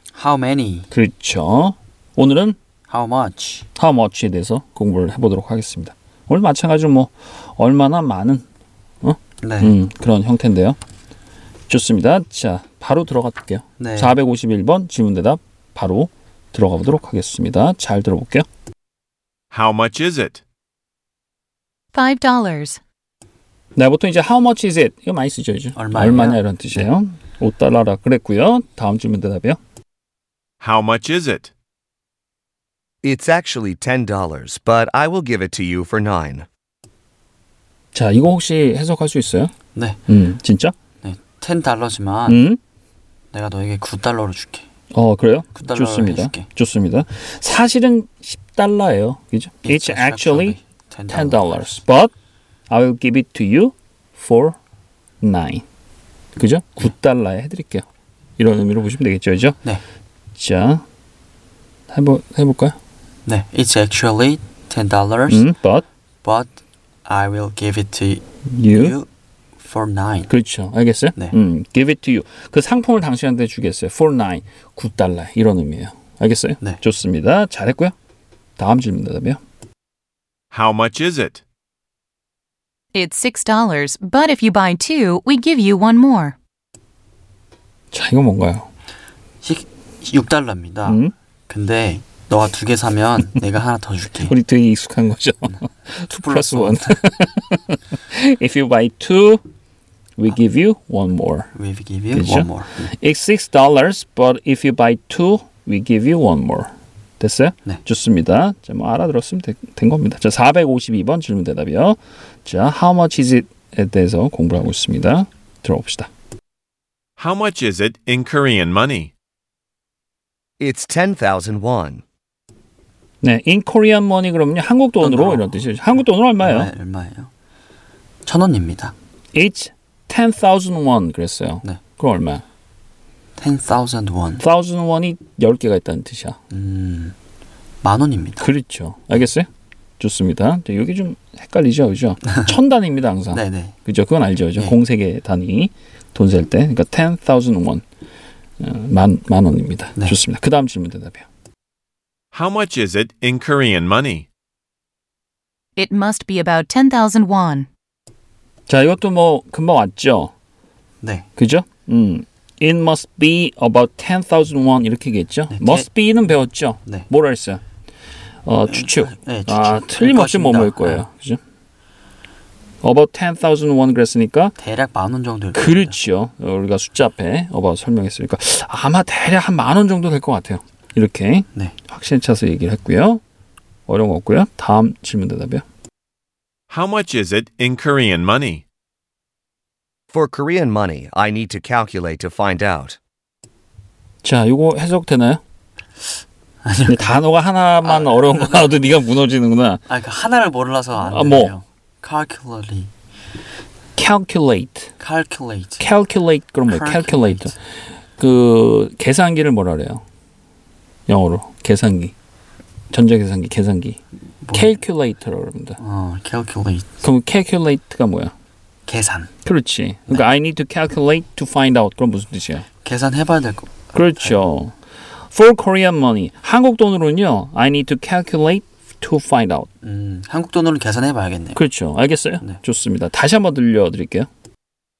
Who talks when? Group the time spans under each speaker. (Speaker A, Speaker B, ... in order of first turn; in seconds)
Speaker A: 0.1-0.9, 2.9-3.6, 9.4-9.7, 13.8-14.2, 25.8-26.8, 41.0-42.4, 43.3-44.6, 45.5-46.5, 49.6-51.8, 63.2-65.5, 66.2-66.5, 67.0-69.1, 69.6-70.3, 89.4-94.3, 96.1-97.0, 101.5-102.9, 125.0-125.4, 126.4-127.3, 128.2-128.9, 133.4-134.4, 136.5-137.1, 137.8-138.4, 143.3-143.7, 165.5-165.9, 168.7-171.0, 174.6-176.0, 196.6-197.2, 197.8-198.8, 199.9-202.9, 205.0-205.8, 206.7-207.6, 214.4-214.7, 215.8-216.9, 218.9-219.3, 222.8-224.5, 229.8-231.6
Speaker B: 0.9-2.5, 3.8-8.4, 9.0-10.8, 11.7-18.4, 23.8-29.6, 37.9-39.5, 40.1-40.7, 42.3-42.6, 44.9-50.6, 51.1-52.1, 52.7-54.5, 55.2-55.6, 56.4-57.8, 58.4-59.6, 60.4-60.8, 61.9-62.8, 65.3-65.8, 68.5-69.0, 70.3-77.9, 78.6-79.4, 87.9-88.7, 90.8-91.1, 94.2-99.4, 100.2-101.5, 102.1-116.1, 123.2-126.7, 129.3-132.4, 134.4-136.4, 138.4-139.5, 140.0-147.8, 148.6-151.2, 158.7-160.3, 161.4-167.6, 168.4-171.4, 172.8-174.5, 175.5-183.2, 183.9-185.6, 194.2-195.4, 196.9-199.8, 201.0-201.5, 203.9-204.9, 205.8-207.5, 208.2-210.0, 211.1-212.1, 212.9-214.0, 214.5-215.8, 217.0-218.3, 219.4-222.7, 223.9-224.7, 225.3-229.7, 231.6-234.3
Speaker C: 19.5-20.4, 30.6-31.5, 80.5-81.4, 117.2-119.1, 152.3-154.3, 186.7-188.6
Speaker D: 21.9-22.8, 82.9-86.3, 155.8-157.7
Speaker E: 33.0-36.5, 120.6-122.0, 190.1-193.0